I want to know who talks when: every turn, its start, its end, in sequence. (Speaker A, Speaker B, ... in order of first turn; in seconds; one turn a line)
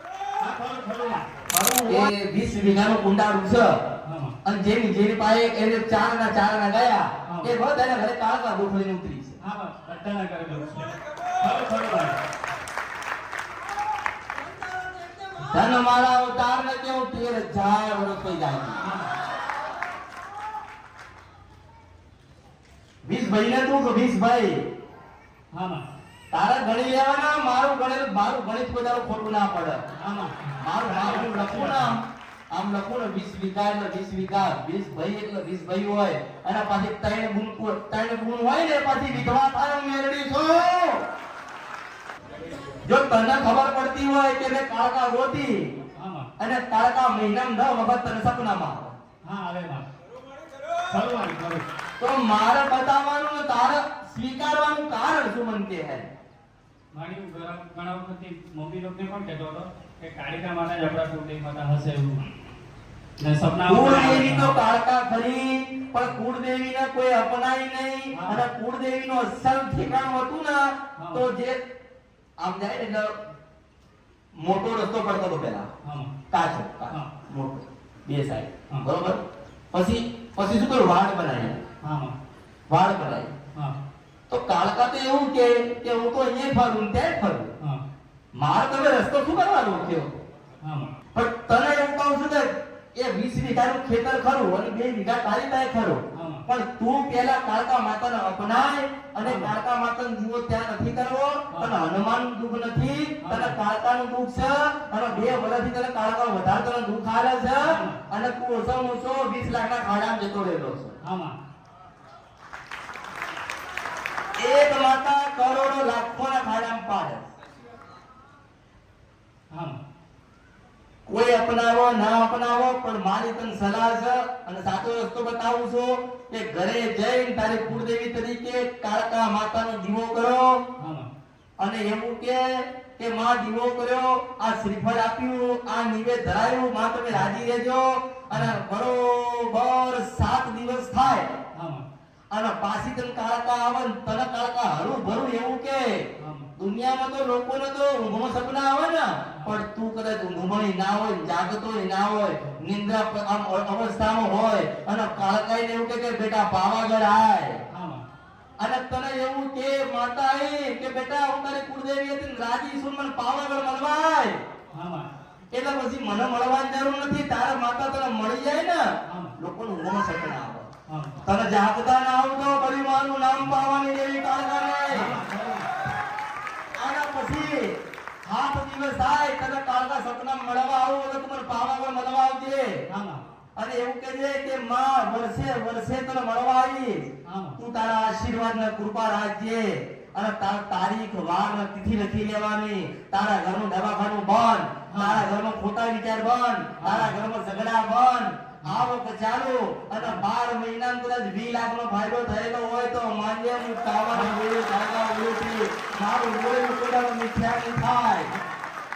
Speaker A: 0.4-1.3
Speaker B: 1.5-3.7
Speaker A: 4.0-4.3
Speaker B: 4.4-9.4
Speaker A: 7.2-7.5
Speaker A: 9.4-12.2
Speaker B: 15.4-18.8
Speaker A: 18.8-19.1
Speaker B: 23.0-24.6
Speaker A: 25.5-25.8
Speaker B: 26.3-29.8
Speaker A: 30.0-31.9
Speaker B: 30.6-32.0
Speaker B: 32.5-41.0
Speaker B: 42.8-45.7
Speaker A: 46.0-46.3
Speaker B: 46.4-49.0
Speaker A: 49.2-49.9
Speaker A: 50.9-51.6
Speaker B: 52.0-56.0
Speaker A: 56.9-62.3
Speaker A: 63.2-64.6
Speaker B: 63.6-71.6
Speaker A: 68.1-68.4
Speaker A: 71.0-71.2
Speaker B: 72.4-73.1
Speaker B: 74.4-75.7
Speaker A: 75.8-76.1
Speaker B: 76.3-81.6
Speaker A: 81.8-82.1
Speaker B: 82.7-83.3
Speaker B: 84.3-87.5
Speaker B: 88.3-90.1
Speaker A: 90.6-90.9
Speaker B: 91.1-111.0
Speaker A: 96.1-96.4
Speaker A: 99.2-99.5
Speaker A: 103.2-103.5
Speaker A: 107.6-108.0
Speaker A: 111.0-111.4
Speaker B: 114.4-117.3
Speaker A: 119.5-119.8
Speaker B: 121.1-130.6
Speaker A: 130.8-131.1
Speaker B: 131.6-141.3
Speaker A: 138.3-138.6
Speaker A: 141.5-141.8
Speaker B: 142.3-146.0
Speaker A: 146.2-146.5
Speaker B: 146.6-157.6
Speaker A: 157.7-158.1
Speaker B: 158.6-164.4
Speaker A: 164.7-165.1
Speaker B: 165.5-168.8
Speaker A: 169.1-169.3
Speaker B: 169.4-170.7
Speaker A: 170.9-171.2
Speaker B: 171.2-175.2
Speaker A: 174.9-175.7
Speaker B: 176.7-182.8
Speaker A: 182.9-183.2
Speaker B: 183.6-187.0
Speaker A: 187.3-187.6
Speaker B: 187.6-208.3
Speaker A: 194.9-195.2
Speaker A: 196.8-197.1